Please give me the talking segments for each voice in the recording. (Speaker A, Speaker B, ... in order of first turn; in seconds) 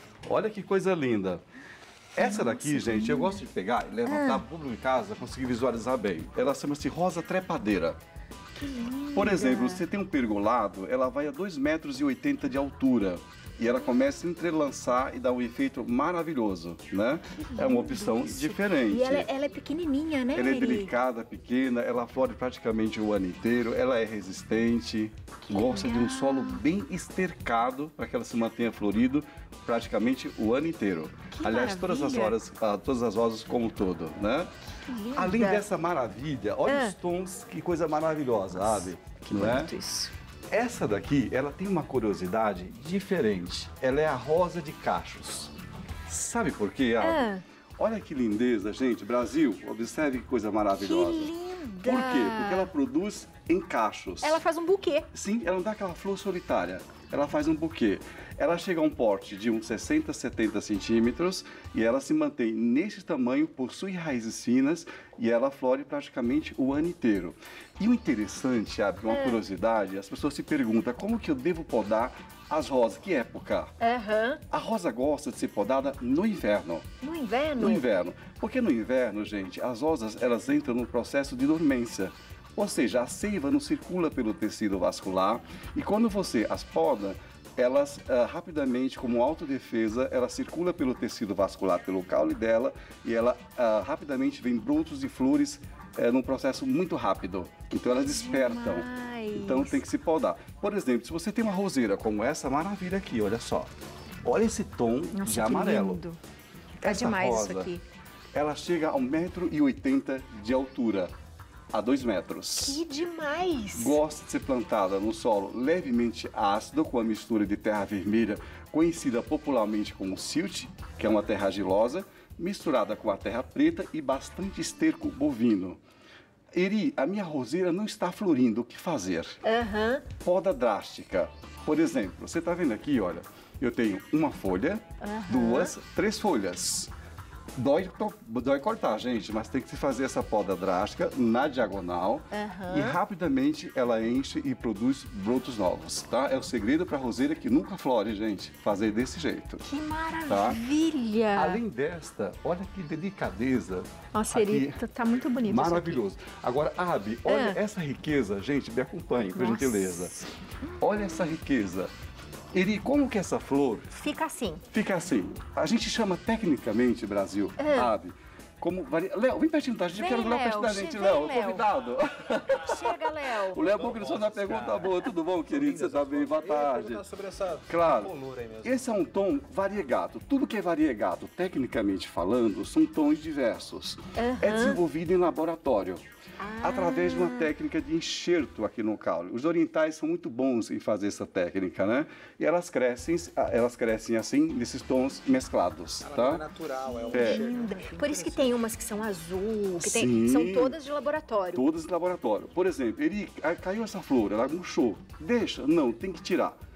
Speaker A: 0.2-1.4, 2.1-8.0, 9.1-19.3, 20.3-34.5, 35.1-39.7, 40.5-45.5, 46.1-51.3, 51.8-54.4, 55.1-73.7, 74.5-76.8, 77.6-103.7, 104.2-106.0, 106.8-107.7, 108.3-111.1, 111.7-112.8, 113.7-125.8, 126.5-129.4, 130.2-136.9, 137.6-149.7, 150.3-150.6, 151.3-154.8, 155.4-160.1, 160.8-161.9, 162.5-163.9, 164.7-177.0, 177.7-186.0, 186.6-196.4, 197.1-197.4, 199.8-200.8, 201.5-206.6
Speaker B: 2.1-3.4, 4.0-4.4, 8.6-9.8, 17.3-20.9, 25.4-26.6, 31.3-32.4, 34.8-35.6, 36.7-37.0, 38.5-40.1, 47.0-47.4, 50.7-52.7, 54.2-55.1, 69.1-69.4, 73.8-74.4, 77.0-77.8, 98.1-99.8, 105.1-106.2, 106.8-107.8, 112.6-114.0, 129.4-130.1, 135.0-135.8, 142.3-143.0, 149.6-151.6, 154.1-156.0, 157.3-157.6, 159.3-161.4, 163.9-164.6, 167.6-167.9, 169.9-171.7, 172.5-173.6, 184.2-184.8, 186.4-187.5, 196.9-201.6
Speaker C: 173.6-178.8, 196.0-198.6